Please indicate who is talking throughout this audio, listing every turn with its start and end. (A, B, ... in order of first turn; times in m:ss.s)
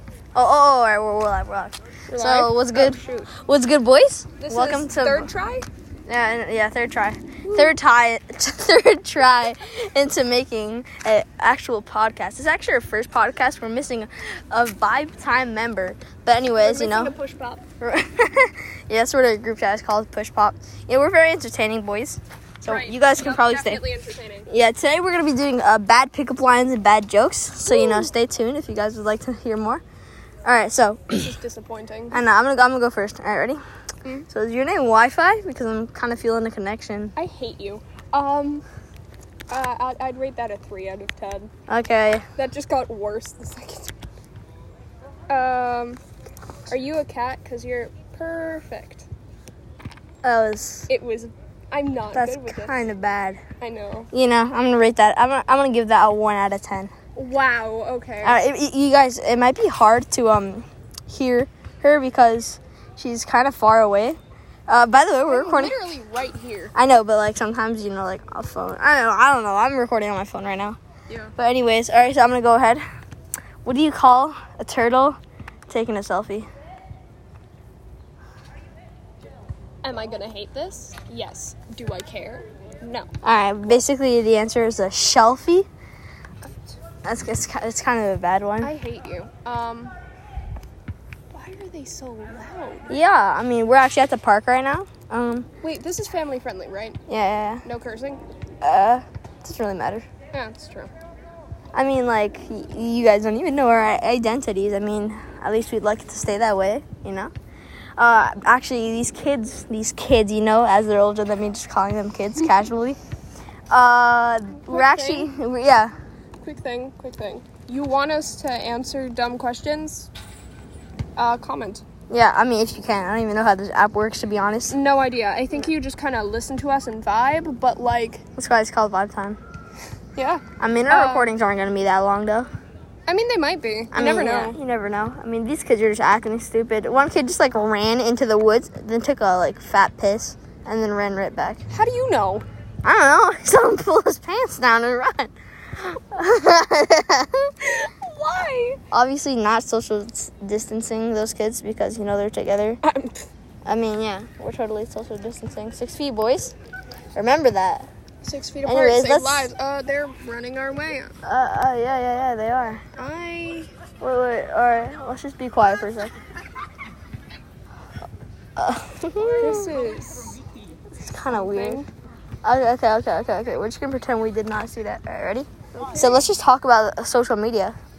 0:00.3-0:05.3 A
0:02.1-0:03.3 B
0:04.4-0:05.6 B
0:06.1-0:17.1 A
0:07.4-0:07.8 B
0:16.6-0:17.6 B
0:17.8-0:23.8 A
0:22.6-0:24.5 B
0:24.5-0:29.8 A
0:27.7-0:28.1 B
0:30.4-0:31.3 A
0:31.1-0:32.2 B
0:32.1-0:33.6 A
0:34.3-0:37.1 A
0:37.2-0:38.6 B
0:39.5-0:41.5 B
0:41.7-0:42.2 A
0:42.4-0:43.9 B
0:45.3-0:46.0 B
0:46.7-0:49.1 B
0:50.2-0:50.9 A
0:50.9-0:52.8 B
0:52.1-0:53.4 A
0:53.6-0:54.1 B
0:54.1-0:56.9 A
0:57.1-0:58.4 B
0:58.2-1:05.8 A
1:05.2-1:06.7 B
1:06.7-1:10.8 A
1:11.1-1:11.3 B
1:11.4-1:12.8 A
1:13.6-1:15.2 A
1:15.7-1:16.5 A
1:19.8-1:23.1 B
1:23.2-1:25.7 A
1:26.4-1:26.7 B
1:27.0-1:28.7 A
1:28.6-1:29.9 B
1:31.3-1:33.0 B
1:32.9-1:35.5 A
1:35.6-1:37.0 B
1:37.1-1:37.6 A
1:37.6-1:38.2 B
1:38.6-1:40.0 A
1:40.3-1:40.9 B
1:41.7-1:47.3 A
1:48.0-1:53.0 A
1:53.7-1:55.9 A
1:54.6-1:55.3 B
1:56.4-2:00.1 B
2:01.2-2:01.8 B
2:02.1-2:04.7 A
2:04.7-2:08.2 B
2:08.4-2:09.4 A
2:10.2-2:11.3 B
2:10.6-2:12.5 A
2:13.1-2:14.6 B
2:13.9-2:21.6 A
2:21.7-2:22.4 B
2:22.8-2:27.5 A
2:27.6-2:28.8 B
2:28.9-2:32.8 A
2:32.8-2:33.3 B
2:33.6-2:36.5 A
2:37.1-2:37.9 A
2:38.2-2:41.1 B
2:38.6-2:39.5 A
2:41.2-2:42.8 A
2:43.0-2:43.7 B
2:44.0-2:46.1 A
2:48.6-2:49.7 A
2:49.4-2:50.4 B
2:50.9-2:51.8 A
2:51.3-2:51.9 B
2:52.4-2:57.8 A
2:55.7-2:56.2 B